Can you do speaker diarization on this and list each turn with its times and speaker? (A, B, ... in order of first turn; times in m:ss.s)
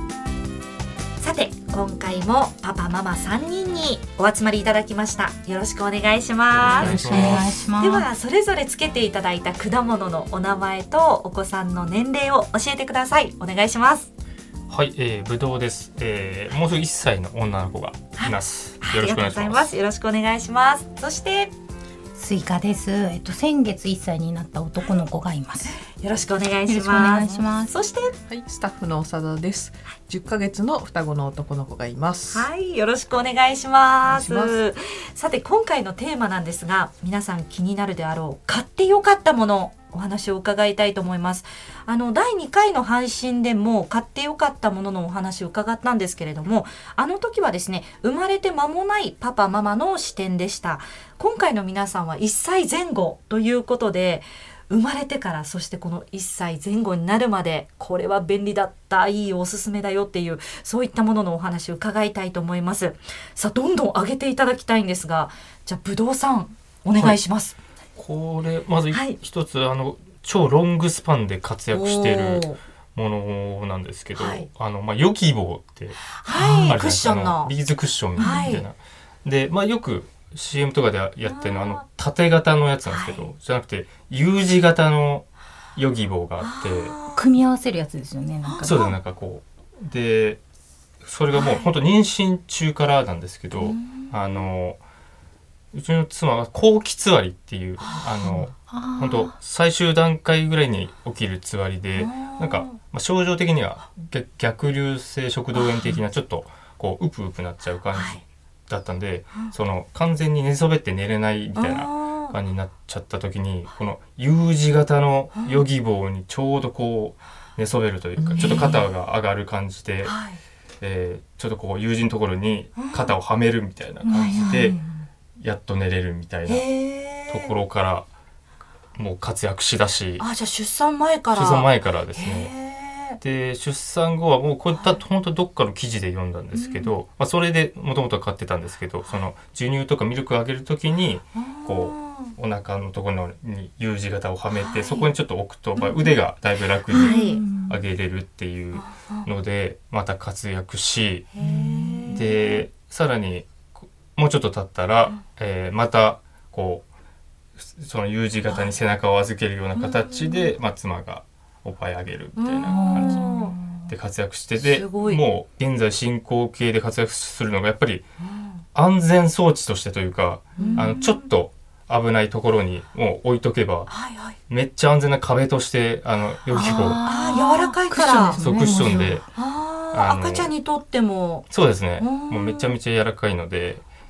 0:01.2-0:14.1 A
0:06.5-0:07.5 B
0:06.6-0:07.4 C
0:06.8-0:08.1 D
0:14.7-0:19.7 B
0:18.2-0:21.5 A
0:22.1-0:25.8 D
0:25.8-0:28.1 A
0:26.6-0:27.7 D
0:28.3-0:32.5 C
0:32.3-1:07.6 A
0:34.0-0:34.6 C
1:08.0-1:27.0 B
1:08.9-1:09.2 A
1:11.7-1:12.6 A
1:14.2-1:14.5 A
1:16.1-1:17.5 A
1:16.3-1:16.6 C
1:18.2-1:18.6 A
1:18.2-1:18.6 D
1:21.2-1:21.8 A
1:22.8-1:23.3 A
1:26.4-1:27.3 A
1:27.1-1:28.8 D
1:28.4-1:28.9 A
1:28.6-1:30.4 B
1:31.0-1:34.8 B
1:31.3-1:31.7 A
1:33.5-1:34.5 A
1:35.7-2:00.1 B
1:38.7-1:39.3 D
1:41.9-1:42.8 A
1:45.5-1:45.9 A
1:47.9-1:48.2 A
1:51.5-1:52.3 A
1:55.3-1:55.6 A
1:58.2-1:58.8 C
1:58.4-1:58.8 A
2:00.0-2:00.4 A
2:00.8-2:04.8 B
2:02.8-2:03.2 A
2:04.0-2:05.1 D
2:04.1-2:04.5 A
2:05.4-2:06.7 B
2:06.4-2:07.6 A
2:07.3-2:08.0 B
2:09.0-2:10.3 B
2:10.2-2:13.2 A
2:11.3-2:12.5 B
2:13.2-2:31.3 B
2:14.7-2:15.0 A
2:16.5-2:16.9 A
2:21.4-2:22.3 A
2:24.5-2:25.1 A
2:25.8-2:26.2 A
2:26.9-2:27.4 A
2:26.9-2:27.8 D
2:28.7-2:29.3 A
2:31.3-2:32.6 A
2:31.4-2:31.8 C
2:32.1-2:36.8 B
2:37.6-2:48.0 B
2:38.4-2:38.7 A
2:39.7-2:40.5 A
2:42.4-2:43.6 A
2:42.6-2:43.9 D
2:44.6-2:45.2 A
2:48.7-2:53.9 B
2:50.6-2:51.2 A
2:50.6-2:50.9 C
2:53.9-2:54.4 A
2:54.5-2:57.0 B
2:56.5-2:59.2 D
2:57.0-2:58.4 A
2:58.4-2:59.2 B
2:59.3-3:02.7 A
2:59.9-3:00.5 B
3:01.5-3:03.8 B